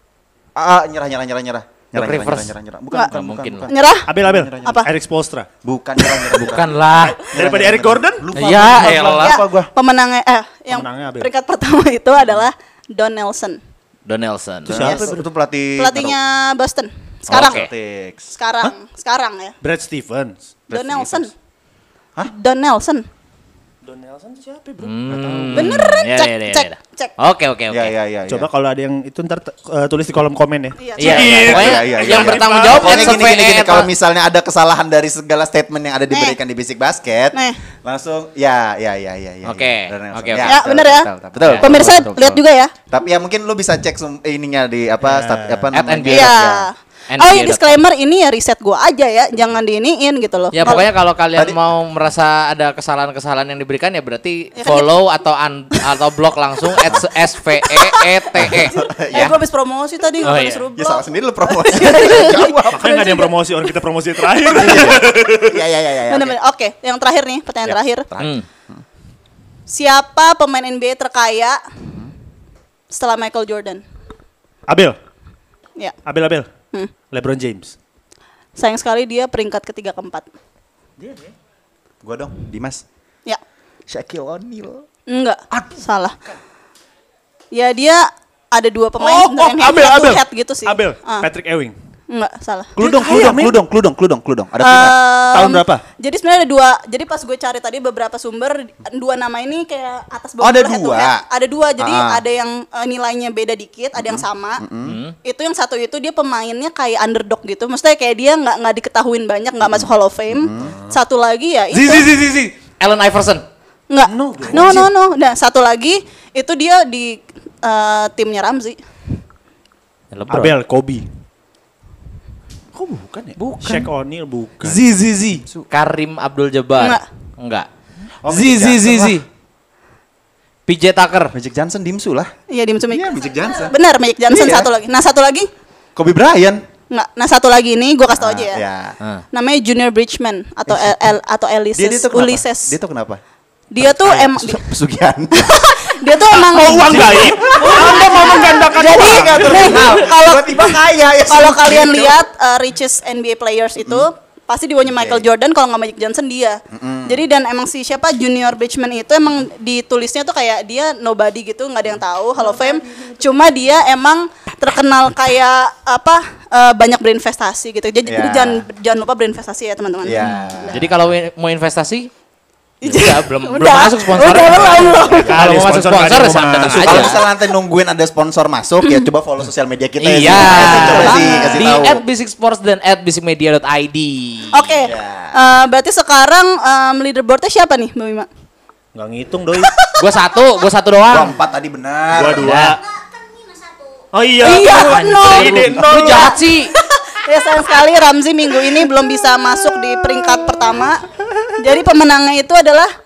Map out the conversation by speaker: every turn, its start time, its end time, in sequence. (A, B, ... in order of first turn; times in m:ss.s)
0:00.6-0:04.9 A
0:02.0-0:03.7 B
0:03.7-0:04.1 C
0:04.1-0:05.5 D
0:04.6-0:04.9 C
0:05.6-0:09.7 A
0:06.3-0:07.2 B
0:07.0-0:09.2 D
0:08.4-0:09.4 B
0:09.2-0:13.6 C
0:10.7-0:11.3 D
0:14.1-0:14.9 B
0:14.7-0:16.2 A
0:14.7-0:15.2 D
0:15.8-0:17.7 C
0:17.3-0:17.7 B
0:17.3-0:18.3 A
0:18.4-0:19.6 C
0:19.6-0:20.4 D
0:20.7-0:21.3 A
0:20.7-0:21.3 C
0:22.2-0:23.1 C
0:23.8-0:25.9 D
0:24.8-0:27.9 B
0:25.5-0:27.1 C
0:27.7-0:28.5 A
0:28.3-0:33.2 D
0:30.8-0:31.6 C
0:31.0-0:33.9 B
0:31.1-0:46.7 A
0:37.3-0:37.6 C
0:39.4-0:40.6 B
0:40.4-0:42.7 C
0:41.4-0:42.0 B
0:45.0-0:45.7 D
0:45.7-0:46.5 B
0:46.1-0:50.9 C
0:47.1-0:47.8 B
0:50.5-0:59.3 B
0:54.6-0:55.0 C
0:58.4-0:59.4 A
0:58.5-1:03.2 C
1:00.2-1:00.7 B
1:00.8-1:03.1 A
1:02.7-1:05.6 D
1:04.5-1:06.4 A
1:06.1-1:08.1 C
1:07.6-1:08.8 A
1:08.2-1:08.4 B
1:09.7-1:11.6 C
1:12.9-1:13.8 C
1:14.7-1:15.0 D
1:16.1-1:16.5 D
1:17.1-1:17.8 D
1:18.6-1:20.2 C
1:21.0-1:21.3 D
1:22.0-1:22.8 A
1:23.9-1:24.8 A
1:25.1-1:26.2 C
1:27.5-1:31.3 C
1:29.0-1:31.8 D
1:32.1-1:32.7 C
1:32.8-1:33.6 D
1:32.8-1:35.0 A
1:34.6-1:44.6 C
1:35.3-1:35.8 D
1:40.4-1:41.2 A
1:41.8-1:42.2 A
1:44.0-1:45.0 A
1:44.8-1:45.2 B
1:45.2-1:52.1 C
1:49.6-1:50.8 A
1:50.6-1:51.0 D
1:51.7-1:53.4 B
1:53.9-1:58.8 C
1:54.1-1:54.9 D
2:00.1-2:00.6 B
2:00.3-2:01.1 D
2:02.7-2:04.8 D
2:03.4-2:03.9 B
2:04.6-2:07.7 B
2:05.4-2:05.7 A
2:06.8-2:07.0 C
2:08.2-2:09.2 A
2:08.3-2:09.3 B
2:10.7-2:11.3 B
2:11.3-2:12.3 A
2:12.5-2:15.5 C
2:12.9-2:13.8 A
2:14.3-2:14.7 A
2:16.0-2:16.7 A
2:16.9-2:18.6 C
2:18.1-2:19.0 A
2:19.3-2:22.8 C
2:20.7-2:21.0 A
2:21.8-2:23.2 A
2:23.7-2:24.6 C
2:23.8-2:25.9 A
2:25.4-2:50.8 C
2:26.4-2:30.0 D
2:26.6-2:28.1 A
2:28.7-2:32.2 A
2:34.9-2:35.3 A
2:36.7-2:37.2 A
2:48.1-2:48.6 A
2:50.0-2:50.8 A
2:50.2-2:52.1 B
2:52.8-2:55.4 C
2:52.8-2:57.2 B
2:55.2-2:57.1 D
2:56.8-3:02.0 A
3:00.0-3:04.7 B
3:00.6-3:01.2 D
3:00.6-3:01.8 C
3:04.5-3:08.3 C
3:04.8-3:05.4 A
3:09.0-3:09.7 D
3:10.0-3:11.4 B
3:11.1-3:12.6 A
3:12.1-3:12.8 D
3:12.4-3:12.8 B
3:14.1-3:16.4 D
3:14.4-3:21.0 C
3:14.5-3:16.8 B
3:19.8-3:20.6 A
3:21.6-3:22.9 C